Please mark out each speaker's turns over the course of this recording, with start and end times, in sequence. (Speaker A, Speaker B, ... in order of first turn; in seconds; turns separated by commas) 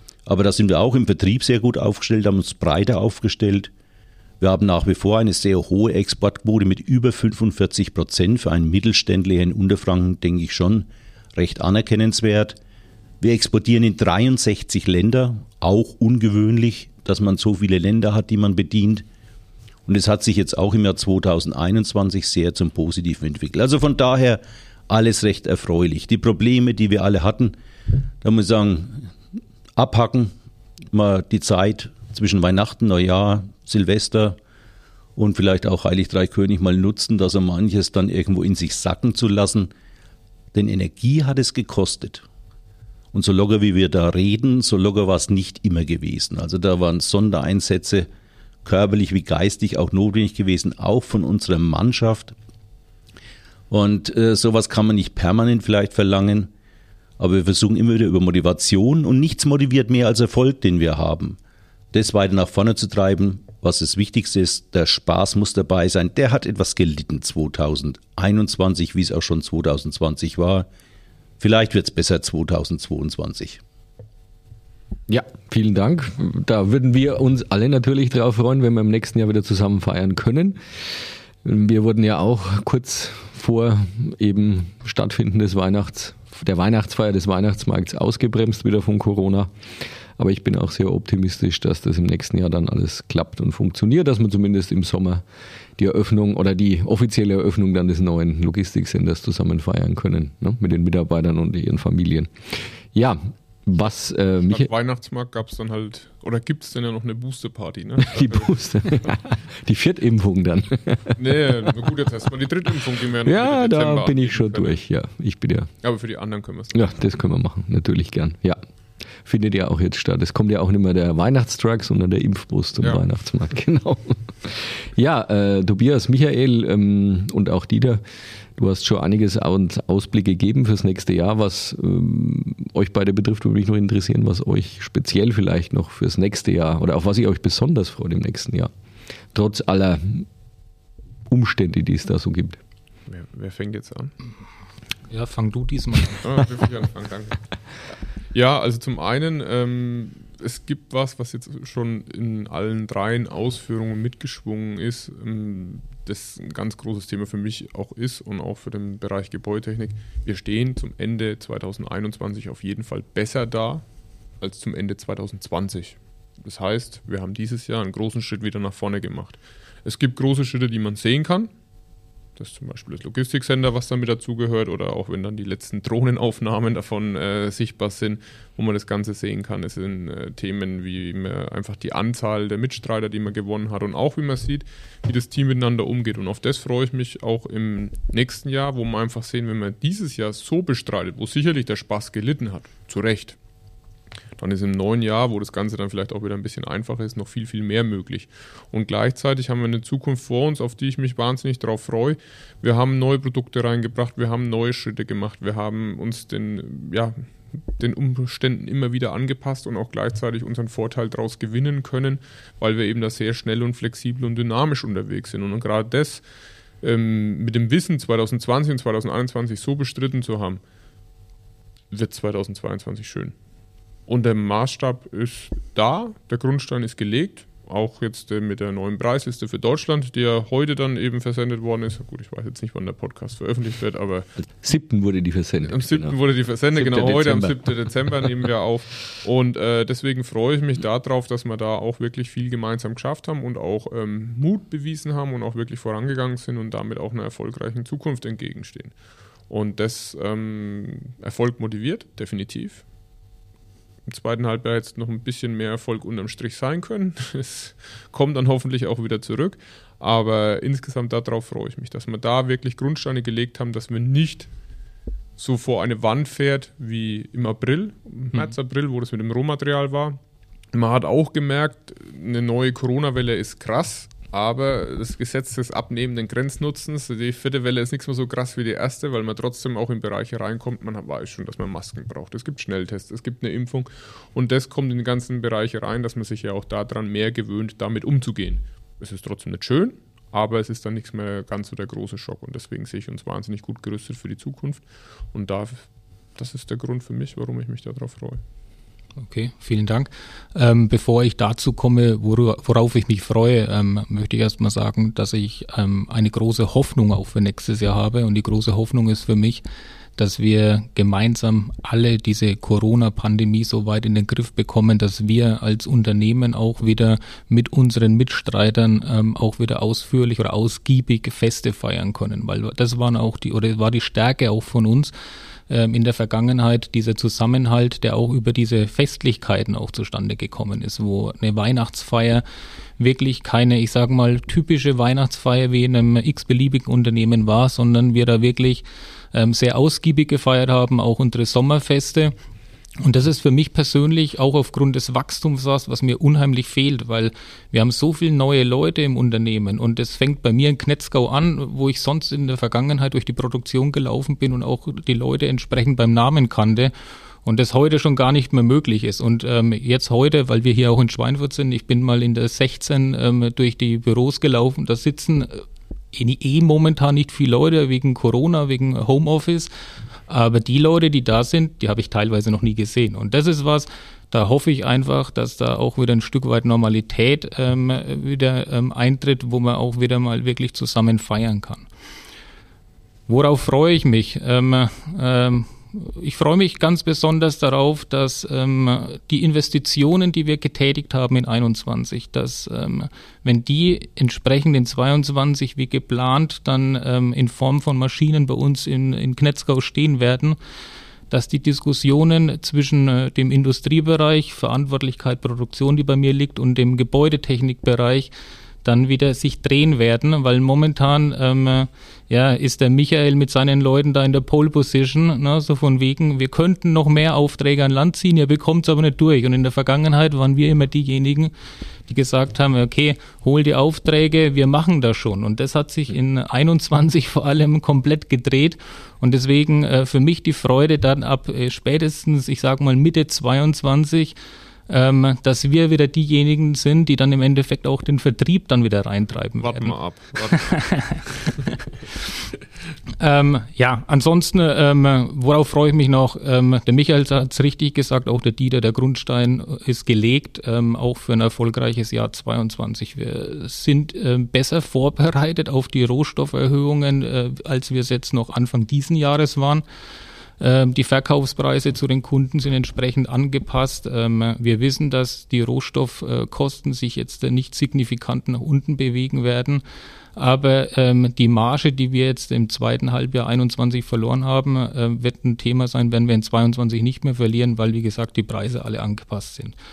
Speaker A: 0.2-3.7, Speaker A: 4.4-12.6, Speaker A: 13.2-19.0, Speaker A: 19.9-27.6, Speaker A: 28.2-29.1, Speaker A: 29.8-30.3, Speaker A: 30.9-34.4, Speaker A: 35.1-39.7, Speaker A: 40.5-42.2, Speaker A: 43.1-48.1, Speaker A: 48.6-52.3, Speaker A: 53.7-56.5, Speaker A: 57.2-61.4, Speaker A: 61.9-70.7, Speaker A: 71.4-73.6, Speaker B: 75.1-89.5, Speaker B: 90.2-95.2, Speaker B: 95.8-104.7, Speaker C: 104.5-109.1, Speaker B: 108.1-111.2, Speaker C: 111.2-114.8, Speaker B: 113.2-115.7, Speaker C: 115.8-116.9, Speaker B: 116.7-118.6, Speaker B: 119.2-128.0, Speaker C: 122.8-123.0, Speaker B: 128.5-138.7, Speaker B: 139.3-140.3, Speaker B: 141.3-142.6, Speaker C: 143.1-144.1, Speaker D: 145.1-146.2, Speaker C: 146.2-147.4, Speaker C: 148.3-163.8, Speaker C: 164.4-171.5, Speaker C: 172.3-193.4, Speaker C: 194.4-216.2, Speaker C: 216.8-220.6, Speaker C: 221.9-223.3, Speaker C: 224.1-234.3, Speaker B: 234.6-236.2, Speaker C: 235.6-248.9, Speaker B: 236.7-237.7, Speaker C: 249.5-252.8, Speaker C: 254.1-264.5, Speaker C: 265.4-270.2, Speaker C: 270.7-298.4, Speaker D: 299.2-309.6, Speaker D: 310.1-325.1, Speaker D: 325.7-332.4, Speaker D: 333.0-342.3, Speaker D: 343.0-356.9, Speaker D: 357.4-369.7, Speaker D: 370.3-381.9, Speaker D: 383.3-400.6, Speaker D: 401.3-408.3, Speaker D: 408.8-421.5, Speaker D: 422.1-434.3, Speaker D: 434.9-441.7, Speaker C: 439.6-441.5, Speaker D: 443.2-459.8, Speaker D: 460.6-469.8, Speaker D: 470.3-479.7